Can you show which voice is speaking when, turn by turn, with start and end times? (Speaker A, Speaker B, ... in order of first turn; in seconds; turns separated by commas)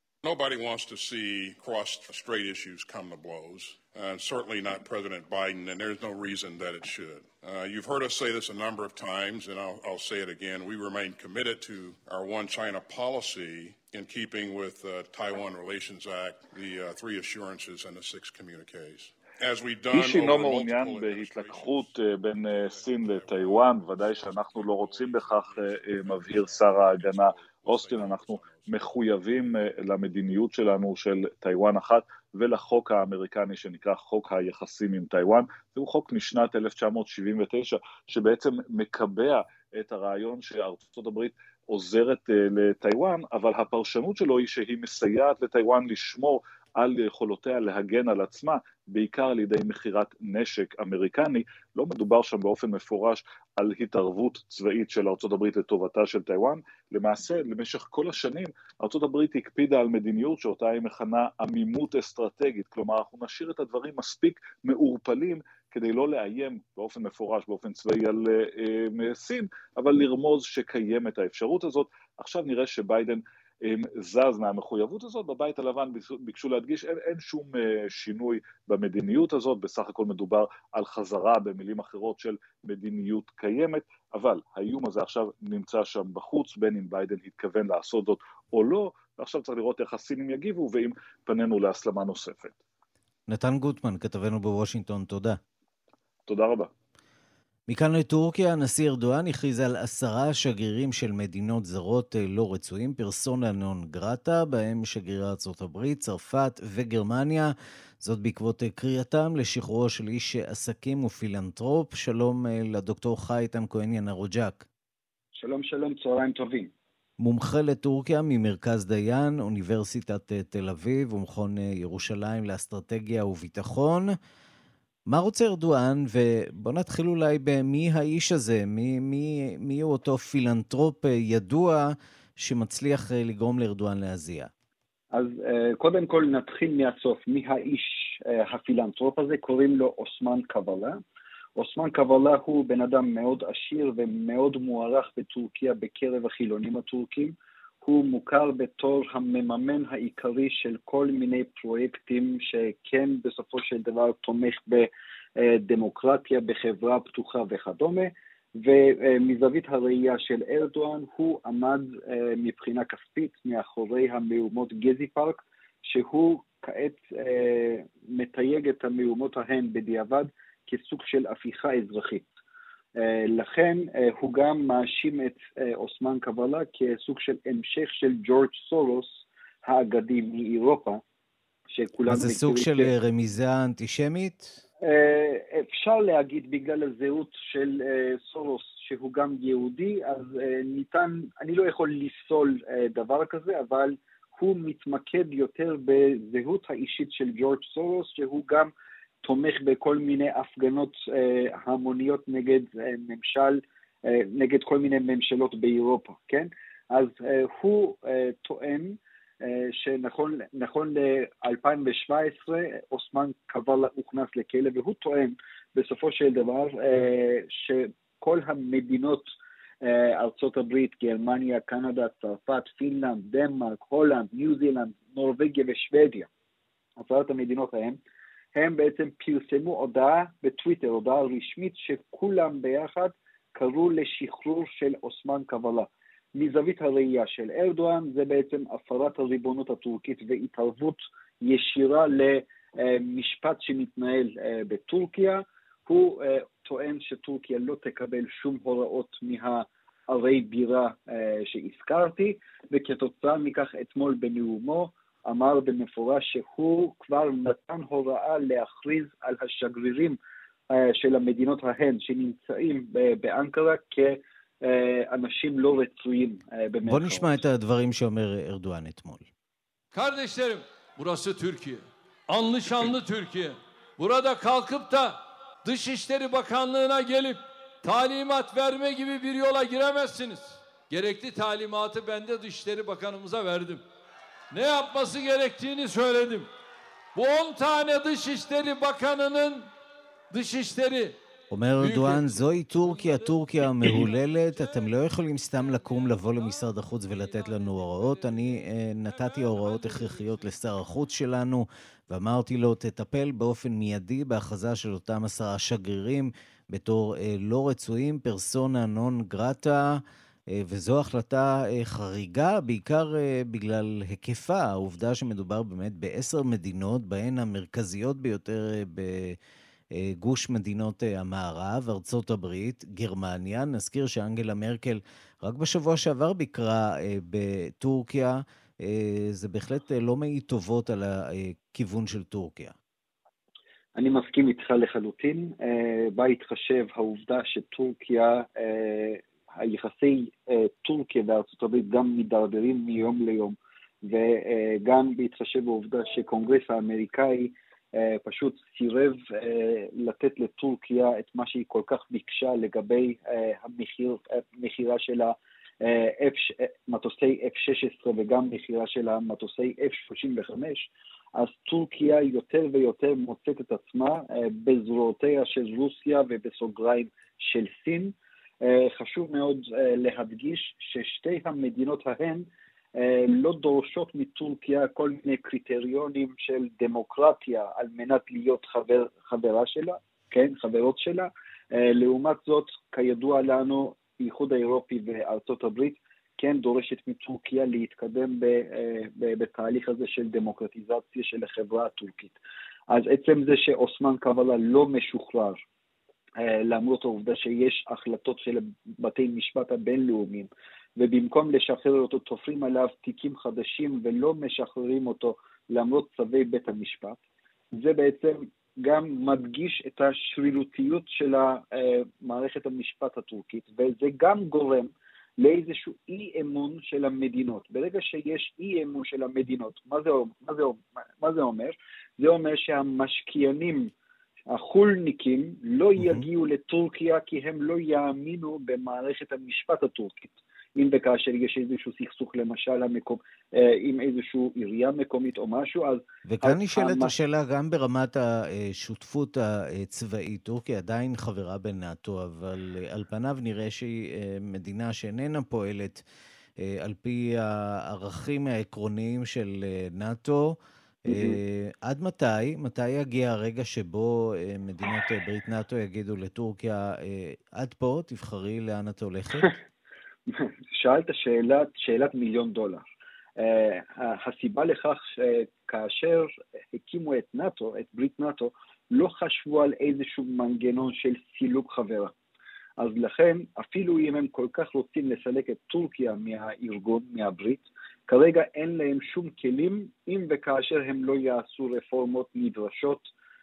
Speaker A: 0.2-21.9, Speaker B: 19.9-92.5, Speaker A: 22.5-28.7, Speaker C: 93.3-95.4, Speaker B: 96.3-96.7, Speaker C: 97.7-114.7, Speaker D: 115.3-116.7, Speaker C: 117.2-124.1, Speaker C: 125.1-134.5, Speaker D: 135.1-141.0, Speaker D: 141.6-172.3, Speaker D: 173.0-181.0, Speaker D: 181.7-182.9, Speaker C: 182.1-184.6, Speaker D: 184.9-198.7, Speaker D: 199.2-219.3, Speaker D: 219.8-226.3, Speaker D: 227.0-228.0, Speaker D: 228.6-260.2, Speaker D: 260.7-267.3, Speaker C: 266.8-269.3, Speaker E: 269.9-283.8, Speaker E: 284.5-286.5, Speaker E: 287.2-289.7, Speaker E: 290.3-291.1, Speaker C: 291.5-310.0, Speaker E: 291.8-294.9, Speaker E: 295.6-298.6, Speaker E: 299.1-300.5, Speaker C: 310.5-319.4, Speaker C: 320.0-332.8, Speaker D: 333.9-392.4, Speaker D: 392.9-395.6, Speaker D: 396.4-407.2, Speaker D: 407.8-423.9, Speaker D: 424.5-437.1, Speaker C: 426.0-426.2, Speaker C: 436.3-446.0, Speaker C: 446.6-459.5, Speaker D: 451.1-451.4, Speaker D: 460.3-462.9, Speaker D: 463.4-472.1, Speaker D: 472.8-483.1